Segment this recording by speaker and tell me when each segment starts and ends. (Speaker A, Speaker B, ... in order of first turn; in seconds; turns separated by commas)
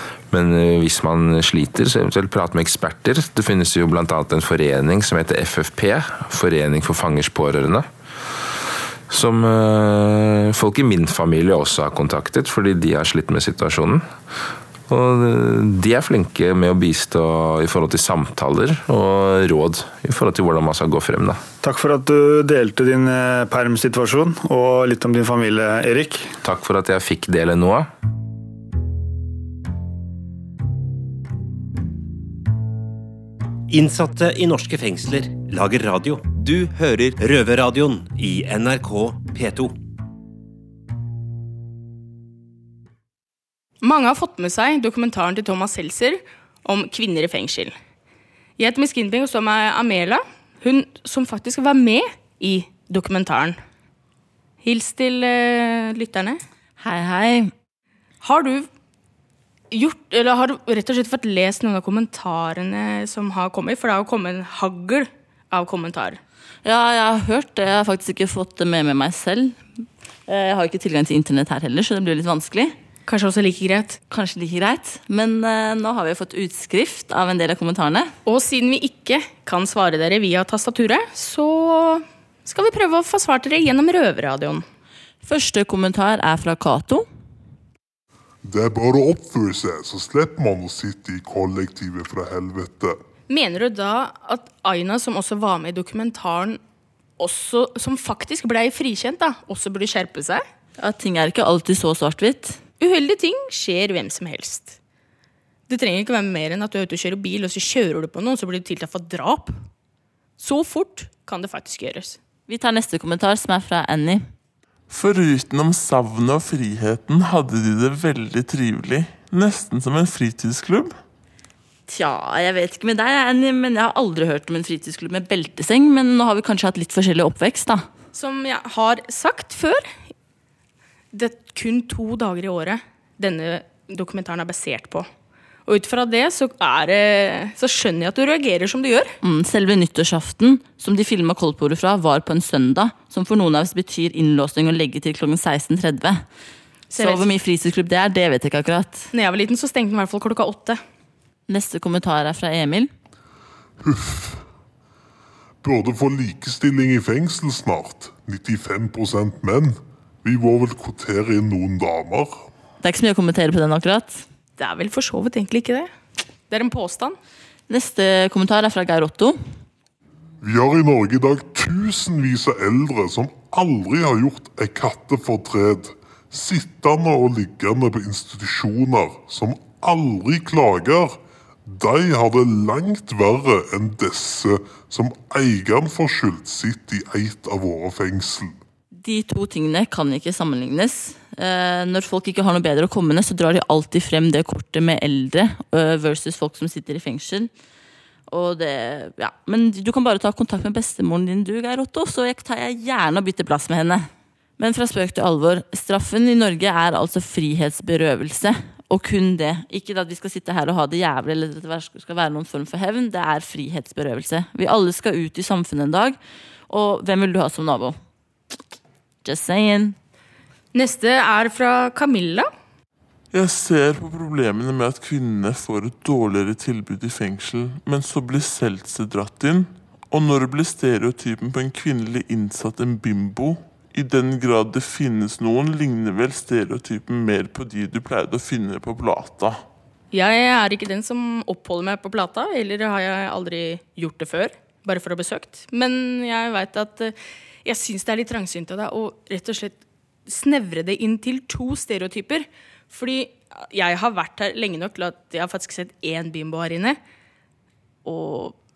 Speaker A: 0.3-7.9, Speaker A: 9.1-14.0, Speaker A: 14.9-21.4, Speaker B: 21.6-26.4, Speaker A: 26.4-27.9, Speaker C: 33.7-39.7, Speaker D: 43.8-47.7, Speaker D: 48.6-53.6, Speaker D: 54.6-56.4, Speaker E: 56.8-57.5, Speaker D: 58.2-58.7, Speaker D: 59.7-66.2, Speaker E: 66.6-69.6, Speaker E: 70.3-72.8, Speaker D: 73.1-74.0, Speaker E: 74.1-78.1, Speaker D: 78.3-84.6, Speaker E: 85.2-87.1, Speaker F: 88.5-93.0, Speaker D: 93.3-96.6, Speaker D: 97.2-100.4, Speaker E: 100.8-102.6, Speaker D: 102.8-104.8, Speaker D: 105.7-109.5, Speaker D: 110.4-112.2, Speaker E: 112.5-114.2, Speaker G: 114.9-121.0, Speaker E: 121.9-127.9, Speaker D: 128.1-129.9, Speaker D: 131.1-135.1, Speaker D: 135.7-139.1, Speaker E: 139.2-146.2, Speaker D: 146.9-147.2, Speaker E: 147.0-149.1, Speaker D: 149.1-150.8, Speaker E: 151.5-152.9, Speaker F: 153.8-154.4, Speaker F: 155.6-162.4, Speaker E: 162.8-164.2, Speaker D: 164.6-165.9, Speaker D: 166.5-167.2, Speaker E: 167.7-169.4, Speaker F: 170.4-188.6, Speaker E: 188.9-197.5, Speaker E: 198.3-216.2, Speaker E: 216.7-218.0, Speaker E: 219.2-220.0, Speaker D: 220.7-222.5, Speaker G: 223.3-239.6, Speaker D: 240.1-257.0, Speaker D: 258.1-258.6